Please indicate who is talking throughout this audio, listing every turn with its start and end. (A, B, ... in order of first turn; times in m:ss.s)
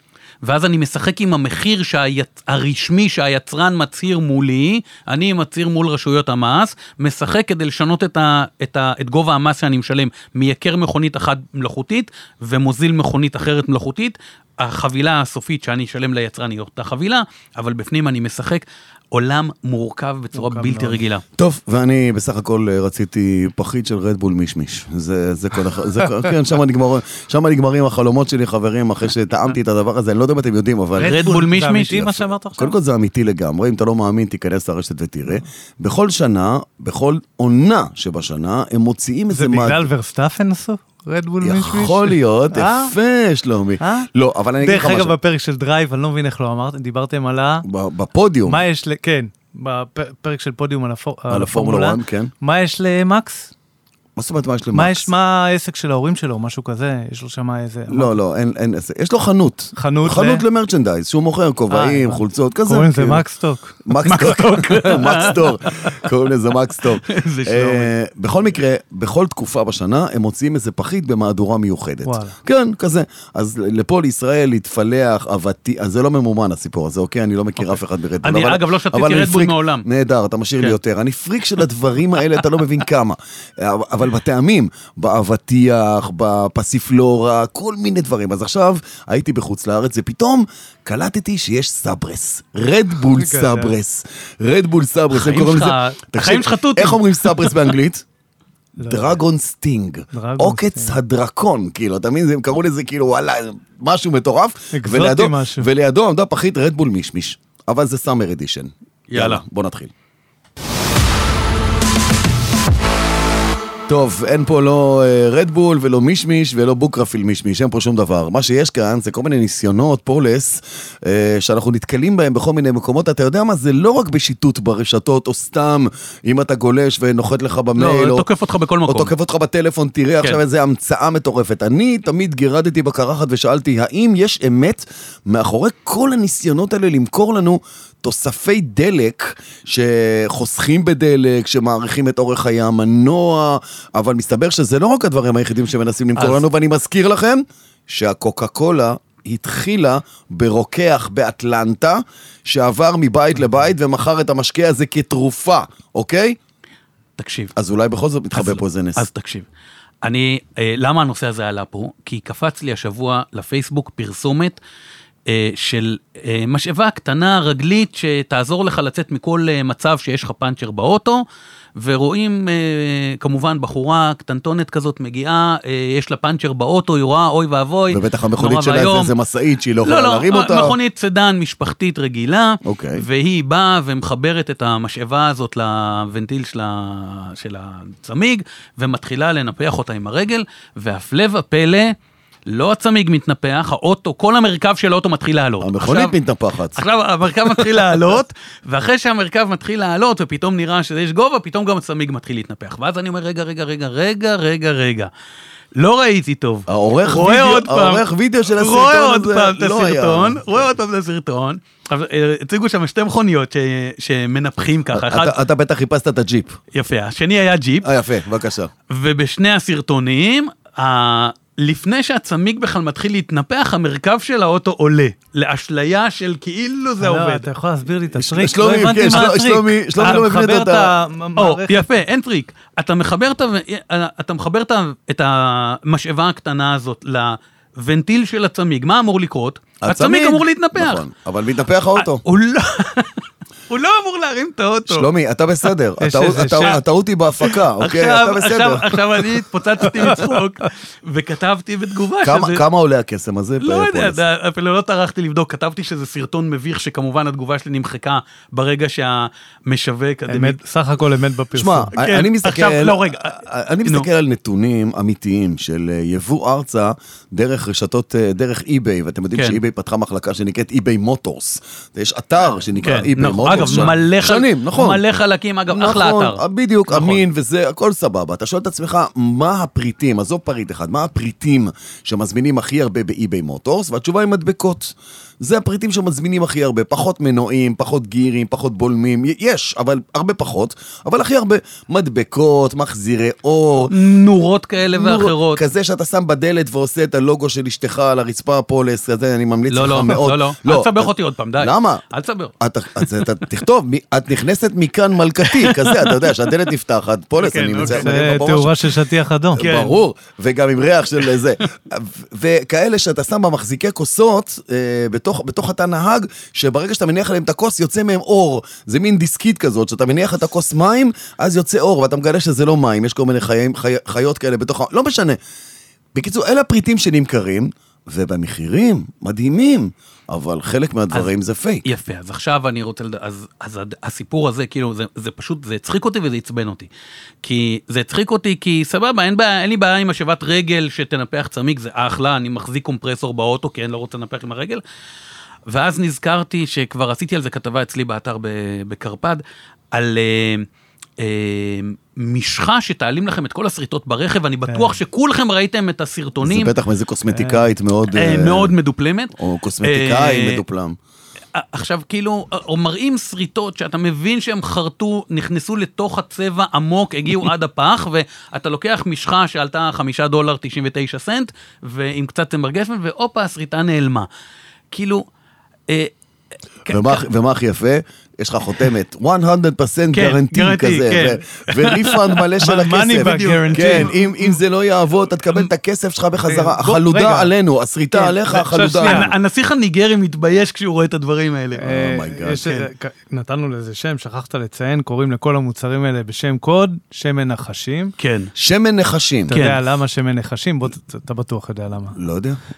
0:00.4-0:21.2 A
0:20.3-0:21.0 B
0:21.4-0:31.2 C
0:31.0-0:32.7 B
0:31.0-0:32.0 A
0:31.9-0:39.9 C
0:39.3-0:42.9 B
0:41.4-0:45.2 C
0:43.8-0:47.7 B
0:47.6-0:48.6 C
0:48.5-0:53.5 B
0:51.3-0:52.3 C
0:54.2-0:55.1 C
0:54.7-0:58.2 B
0:57.9-1:03.2 C
0:59.8-1:00.4 B
1:01.7-1:03.8 B
1:03.8-1:38.0 C
1:04.0-1:06.0 A
1:07.0-1:07.9 A
1:12.0-1:12.4 B
1:18.2-1:19.9 A
1:33.1-1:33.7 B
1:35.1-1:37.6 A
1:38.8-1:39.2 B
1:38.8-1:49.9 C
1:40.1-1:40.9 B
1:44.7-1:45.7 B
1:49.1-1:49.4 A
1:53.9-2:08.3 C
2:07.8-2:09.1 A
2:08.9-2:36.4 C
2:26.2-2:26.4 A
2:37.2-2:37.5 A
2:37.6-2:39.0 C
2:38.3-2:39.5 A
2:40.0-2:44.6 A
2:45.3-2:51.2 A
2:51.8-2:59.1 A
2:57.9-3:00.8 C
2:59.8-3:12.0 A
3:02.6-3:03.0 C
3:12.5-3:16.2 A
3:15.6-3:16.8 C
3:16.7-3:25.1 A
3:25.8-3:35.4 A
3:26.7-3:30.6 C
3:34.9-3:36.6 C
3:36.7-3:37.9 A
3:37.8-3:38.7 C
3:38.9-3:47.5 A
3:47.0-3:51.8 B
3:48.2-3:50.9 C
3:51.4-4:01.0 A
3:59.8-4:02.2 C
4:02.0-4:05.1 A
4:04.9-4:09.4 C
4:06.0-4:06.8 B
4:07.4-4:12.6 A
4:12.2-4:14.2 C
4:13.6-4:20.6 A
4:20.3-4:21.9 B
4:21.5-4:35.0 C
4:22.0-4:24.1 A
4:32.8-4:37.2 A
4:35.7-4:53.9 C
4:53.9-4:55.6 A
4:54.9-5:02.0 C
4:59.7-5:03.2 A
5:02.6-5:09.0 C
5:05.4-5:06.3 A
5:07.4-5:08.3 A
5:07.8-5:09.6 B
5:09.5-5:25.4 C
5:09.6-5:10.0 A
5:26.1-5:31.8 C
5:31.8-5:36.9 A
5:37.4-5:44.8 A
5:45.7-5:49.4 A
5:49.9-5:50.7 A
5:51.2-5:56.7 A
5:54.7-5:55.0 B
5:56.4-5:58.8 C
5:57.3-5:57.7 B
5:58.1-6:00.6 A
5:59.4-6:01.0 C
6:01.5-6:14.3 A
6:14.9-6:15.2 A
6:15.9-6:16.1 A
6:16.8-6:17.2 A
6:16.9-6:29.3 C
6:20.1-6:22.4 A
6:22.6-6:24.2 B
6:23.2-6:24.1 A
6:26.4-6:27.5 B
6:28.1-6:29.3 B
6:29.0-6:31.9 A
6:31.8-6:38.1 B
6:31.9-6:32.8 C
6:38.2-6:38.5 A
6:38.6-6:39.5 C
6:39.5-6:42.2 B
6:39.5-6:39.8 A
6:42.1-6:42.6 C